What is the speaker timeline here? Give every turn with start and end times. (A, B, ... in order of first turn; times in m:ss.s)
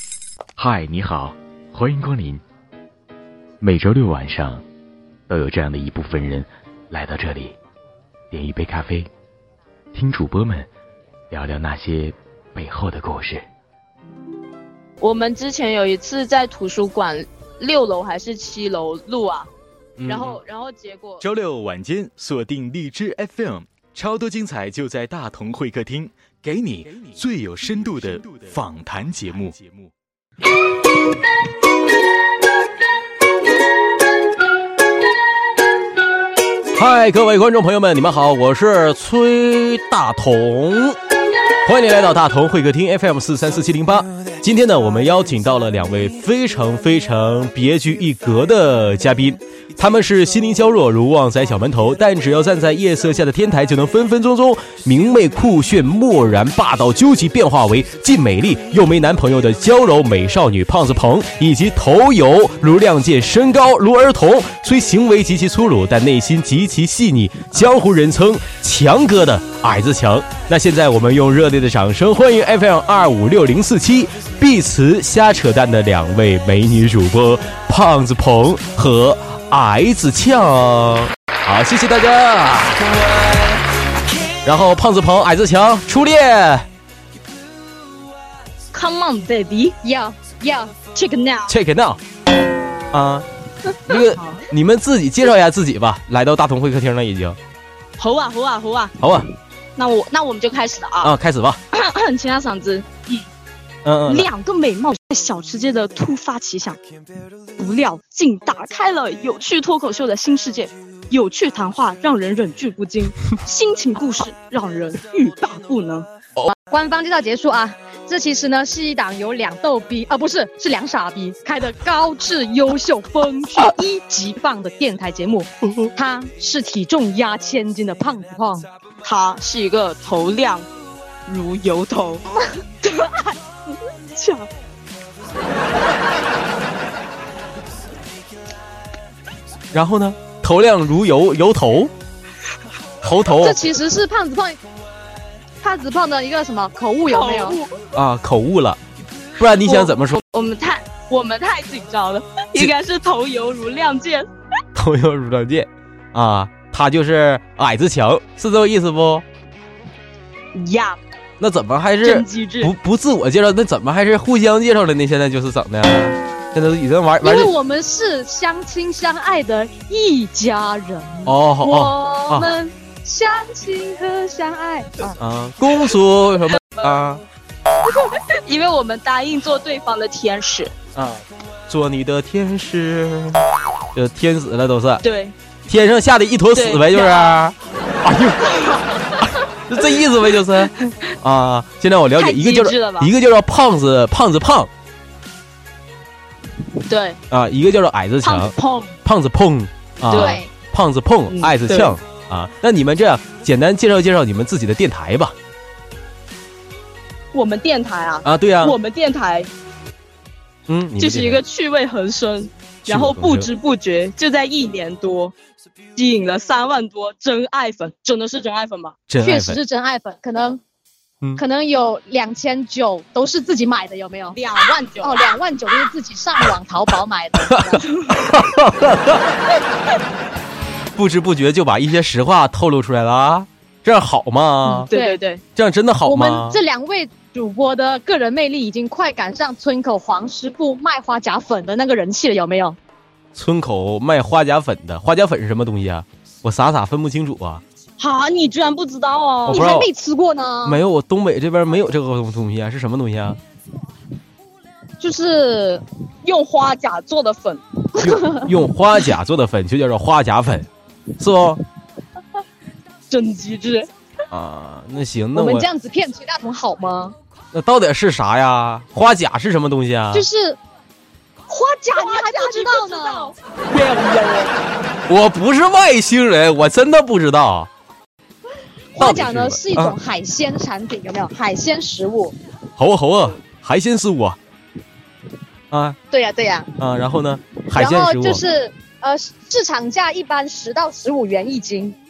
0:00.6-0:02.4 A
0:00.6-0:02.3 B
0:03.6-0:04.6 A
0:03.8-0:04.3 B
0:05.3-0:07.5 A
0:05.3-0:06.3 B
0:07.0-0:07.4 B
0:08.3-0:09.1 A
0:08.3-0:08.7 B
0:09.9-0:10.7 A
0:10.0-0:10.6 B
0:11.3-0:13.4 A
0:11.3-0:12.0 B
0:12.6-0:13.2 B
0:15.0-0:19.5 C
0:20.0-0:20.4 D
0:20.1-0:21.2 C
0:21.2-0:29.9 B
0:36.7-0:41.0 D
0:41.6-1:23.0 D
1:24.4-1:26.7 D
1:28.7-1:29.8 C
1:29.8-1:30.9 E
1:30.9-1:31.5 C
1:31.5-1:32.0 D
1:32.9-1:33.2 D
1:33.8-1:37.4 D
1:33.9-1:34.4 C
1:38.0-1:39.0 C
1:39.0-1:39.3 D
1:39.8-1:41.1 C
1:41.0-1:41.6 D
1:41.7-1:43.2 C
1:43.8-1:44.3 D
1:44.0-1:46.8 C
1:47.6-1:56.1 C
1:56.5-2:08.6 E
2:09.0-2:10.6 C
2:11.3-2:12.2 C
2:12.8-2:13.3 C
2:14.1-2:14.5 C
2:19.7-2:21.9 D
2:23.0-2:23.6 D
2:23.4-2:24.6 E
2:25.6-2:27.6 E
2:27.1-2:27.8 C
2:27.9-2:28.8 D
2:29.4-2:30.2 D
2:29.6-2:34.3 C
2:34.7-2:39.2 D
2:40.5-2:41.0 C
2:41.4-2:47.5 D
2:42.0-2:42.7 C
2:47.2-2:55.1 E
2:51.2-2:52.5 D
2:55.2-2:57.2 D
2:56.5-2:57.0 C
2:58.1-3:00.7 C
3:00.9-3:05.0 D
3:05.0-3:05.3 C
3:05.7-3:14.7 D
3:06.5-3:07.4 C
3:10.0-3:11.1 C
3:12.2-3:13.1 C
3:16.8-3:17.2 C
3:17.3-3:25.3 D
3:18.2-3:19.0 C
3:20.1-3:20.4 C
3:20.1-3:20.4 E
3:21.3-3:22.0 C
3:27.3-3:29.5 C
3:28.2-3:28.8 D
3:30.7-3:31.4 D
3:31.0-3:35.3 C
3:32.8-3:33.5 D
3:36.0-3:39.0 C
3:39.1-3:39.6 D
3:39.2-3:40.6 E
3:41.4-3:44.4 E
3:44.3-3:45.2 C
3:45.0-3:47.8 E
3:47.4-3:49.3 D
3:50.9-3:54.9 D
3:54.7-3:55.4 C
3:54.8-3:55.2 E
3:55.6-3:56.6 D
3:56.1-4:02.8 E
4:03.3-4:07.6 D
4:08.0-4:09.7 C
4:09.5-4:09.9 D
4:09.5-4:10.8 E
4:10.6-4:13.4 D
4:15.0-4:15.8 E
4:16.2-4:17.6 C
4:18.0-4:18.5 E
4:18.0-4:20.7 D
4:21.2-4:21.6 D
4:23.1-4:23.9 C
4:24.3-4:25.7 D
4:25.3-4:27.1 E
4:27.5-4:30.3 D
4:30.1-4:30.6 E
4:31.5-4:33.3 E
4:32.0-4:34.6 C
4:35.1-4:37.7 D
4:38.9-4:42.4 E
4:39.0-4:40.0 D
4:42.8-4:44.4 D
4:45.7-4:46.0 D
4:46.1-4:46.7 E
4:46.8-4:48.4 D
4:47.7-4:52.0 E